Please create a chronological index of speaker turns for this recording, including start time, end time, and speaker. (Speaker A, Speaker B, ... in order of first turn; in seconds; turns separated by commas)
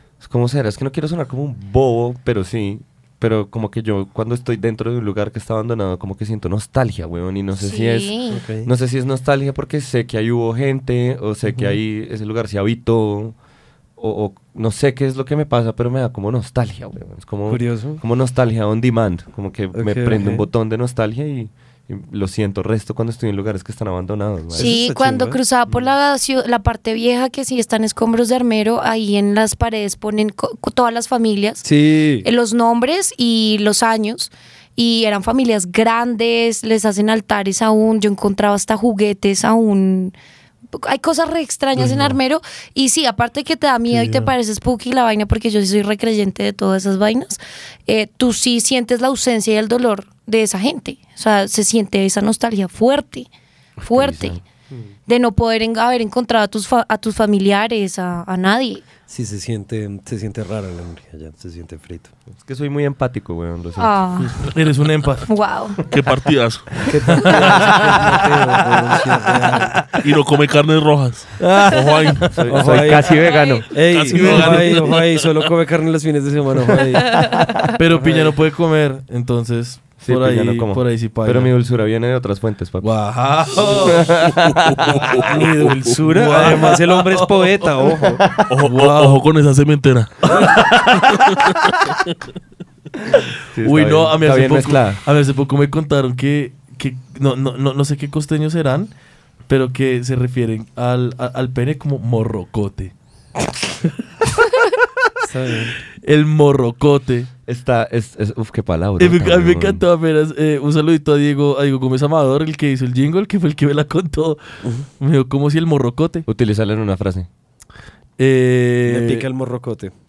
Speaker A: 0.2-13.3, Speaker B: 7.6-8.4, Speaker C: 8.3-8.7, Speaker A: 14.0-24.7, Speaker C: 17.5-18.0, Speaker C: 19.7-20.4, Speaker C: 24.5-25.4, Speaker B: 24.6-31.6, Speaker C: 31.6-32.3, Speaker B: 32.2-40.1, Speaker B: 40.7-53.3, Speaker D: 41.8-42.2, Speaker D: 43.9-44.3, Speaker A: 53.8-54.4, Speaker B: 53.8-54.4, Speaker B: 55.1-58.8, Speaker C: 59.1-62.1, Speaker A: 62.3-64.0, Speaker B: 63.8-64.4, Speaker D: 64.4-65.3, Speaker B: 65.2-65.8, Speaker E: 65.9-66.9, Speaker C: 66.8-69.8, Speaker D: 67.1-68.2, Speaker D: 68.9-70.0, Speaker E: 69.9-72.5, Speaker D: 71.4-72.4, Speaker A: 72.3-73.7, Speaker C: 72.5-78.3, Speaker B: 73.2-73.6, Speaker E: 73.7-75.3, Speaker D: 74.2-74.6, Speaker D: 77.8-81.5, Speaker A: 80.0-82.9, Speaker D: 82.8-84.1, Speaker A: 83.7-85.0, Speaker E: 85.0-85.8, Speaker C: 85.2-88.3, Speaker D: 86.0-88.0, Speaker A: 88.2-88.5, Speaker E: 88.5-90.3, Speaker D: 88.6-89.2, Speaker D: 90.2-91.3, Speaker A: 93.5-95.0, Speaker D: 93.6-98.9, Speaker D: 99.5-102.9, Speaker C: 105.2-105.8, Speaker D: 106.0-107.3, Speaker A: 107.5-109.8, Speaker D: 109.0-114.4, Speaker D: 115.0-116.2, Speaker A: 116.2-117.3, Speaker D: 118.2-119.3, Speaker C: 118.8-119.9